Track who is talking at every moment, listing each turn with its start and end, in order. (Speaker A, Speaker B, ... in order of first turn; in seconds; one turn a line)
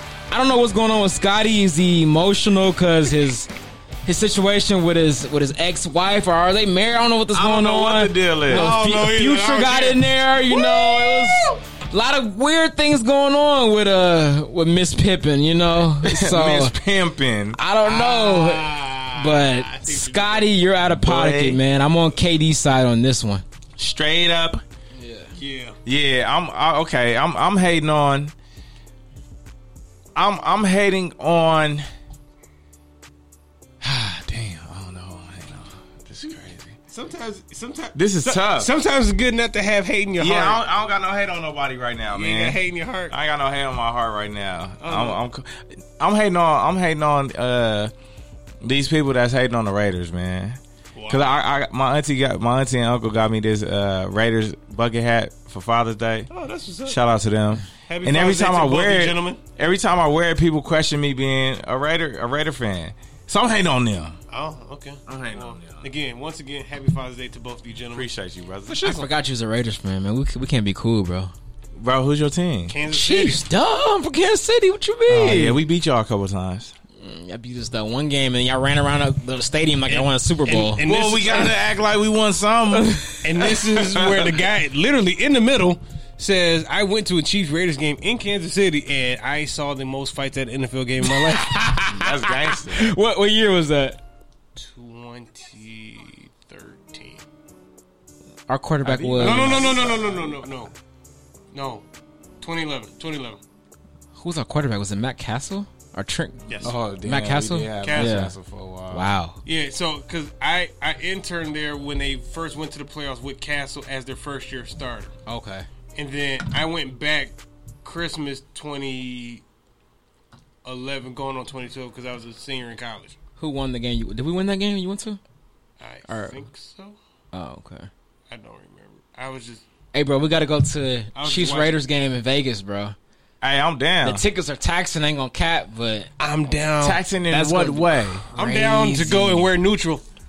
Speaker A: 0.3-3.5
Speaker A: 4.0-16.8
Speaker B: 7.3-8.7
Speaker C: 8.5-11.6
Speaker B: 16.0-17.6
Speaker A: 17.6-23.4
Speaker C: 17.8-20.6
Speaker B: 20.9-21.6
Speaker B: 23.8-24.6
Speaker A: 24.9-25.3
Speaker C: 25.4-25.8
Speaker B: 25.9-28.3
Speaker B: 30.1-31.9
Speaker B: 33.8-36.8
Speaker C: 36.9-40.6
Speaker B: 38.0-38.7
Speaker B: 40.2-47.9
Speaker C: 42.1-43.1
Speaker C: 44.8-45.2
Speaker B: 48.6-56.3
Speaker C: 51.0-51.3
Speaker C: 56.3-57.0
Speaker B: 56.9-64.2
Speaker C: 57.8-59.4
Speaker C: 64.3-68.1
Speaker B: 65.1-65.9
Speaker B: 67.9-69.0
Speaker A: 68.7-71.3
Speaker B: 71.8-72.8
Speaker C: 72.7-73.4
Speaker A: 72.9-75.6
Speaker B: 75.1-76.7
Speaker A: 77.0-80.8
Speaker C: 79.9-81.6
Speaker B: 80.8-84.4
Speaker A: 82.8-83.2
Speaker C: 83.2-91.6
Speaker A: 91.0-94.0
Speaker B: 91.9-92.9
Speaker C: 94.6-97.2
Speaker A: 98.5-99.7
Speaker B: 98.8-100.5
Speaker C: 99.2-100.7
Speaker C: 101.5-101.8
Speaker C: 102.4-103.4
Speaker A: 104.2-108.3
Speaker C: 106.5-106.8
Speaker B: 106.6-109.1
Speaker C: 107.8-108.2
Speaker A: 108.9-109.4
Speaker C: 109.5-115.1
Speaker A: 115.3-115.7
Speaker C: 116.0-119.4
Speaker C: 120.6-123.2
Speaker A: 123.4-125.2
Speaker C: 125.8-127.0
Speaker A: 126.1-126.4
Speaker A: 127.3-127.9
Speaker C: 128.3-129.7
Speaker A: 129.9-133.0
Speaker C: 131.2-131.8
Speaker B: 133.4-134.2
Speaker A: 134.0-136.1
Speaker C: 136.2-137.0
Speaker B: 136.8-138.2
Speaker A: 137.3-139.5
Speaker C: 138.3-140.0